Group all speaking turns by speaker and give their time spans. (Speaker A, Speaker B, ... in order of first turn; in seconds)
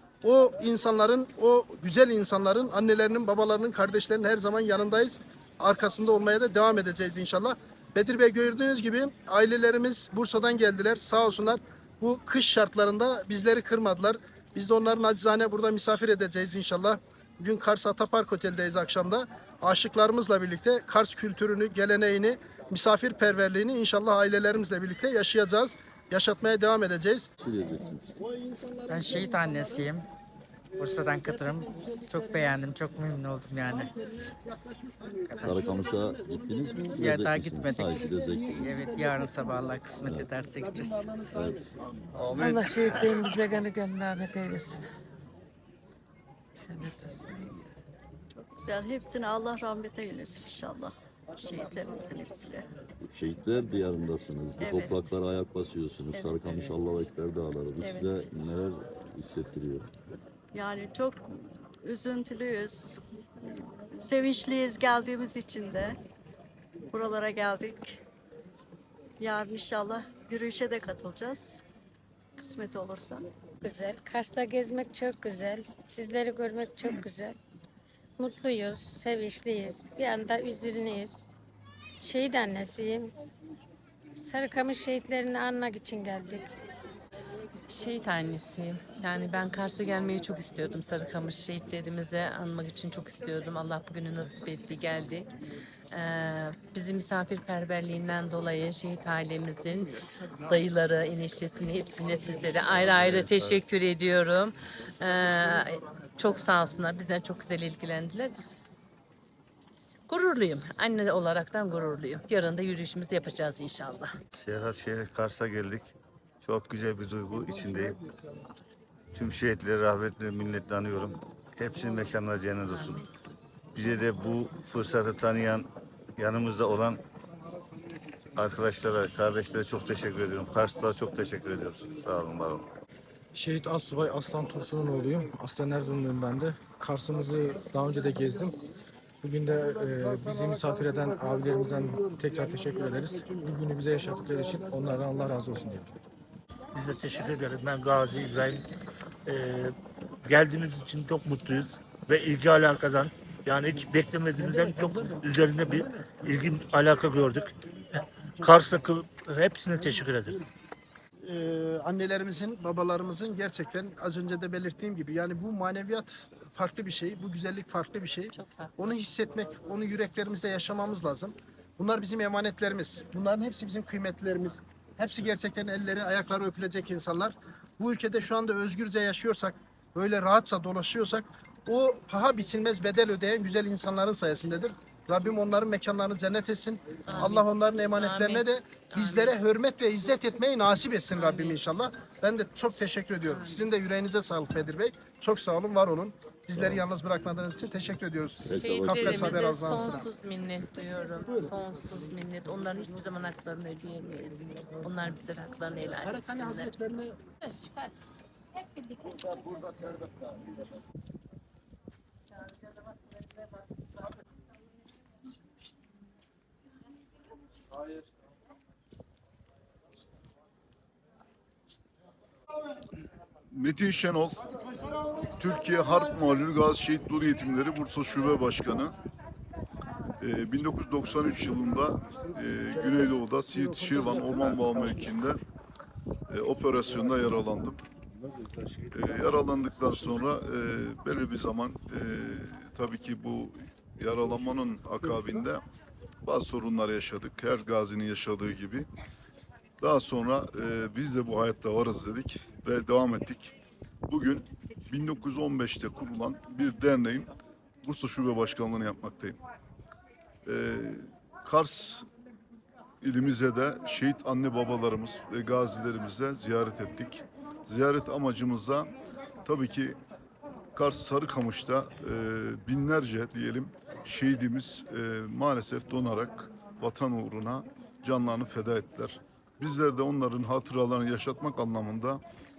Speaker A: 0.2-27.3, 28.2-29.9, 30.8-32.7, 33.6-39.9, 40.8-41.3, 161.2-200.1, 205.9-207.2
Speaker B: 27.4-28.2, 35.4-38.8, 40.0-40.4, 41.3-41.7, 53.0-59.9, 198.4-199.3
Speaker C: 28.9-30.1, 30.8-33.9, 37.0-41.1
Speaker D: 42.1-43.3, 223.5-224.4, 225.4-228.9, 230.2-235.4, 236.3-237.8, 238.9-245.6, 246.2-248.9, 249.8-253.6, 254.1-257.3, 257.8-259.4, 260.4-262.1, 263.0-268.9, 269.4-270.0, 270.7-282.2
Speaker E: 42.3-44.8, 46.5-47.8
Speaker F: 48.4-52.6, 54.6-55.0, 56.2-56.7, 57.8-58.1, 60.5-61.2, 61.8-66.0, 66.9-68.0, 69.2-71.6, 72.4-73.2
Speaker G: 73.6-77.4, 78.2-81.3, 82.0-83.1, 84.2-86.5
Speaker H: 87.7-95.3, 95.9-99.9, 100.5-108.3, 110.1-114.1, 122.7-123.1, 168.3-168.8, 187.1-189.4, 191.1-191.6, 193.3-193.7, 198.5-206.7
Speaker I: 102.8-103.6, 114.3-118.0, 119.1-123.0, 123.7-127.0, 128.3-132.7
Speaker J: 133.3-138.6, 139.2-145.9
Speaker K: 146.8-148.6, 149.3-149.7, 150.3-157.4, 158.4-160.5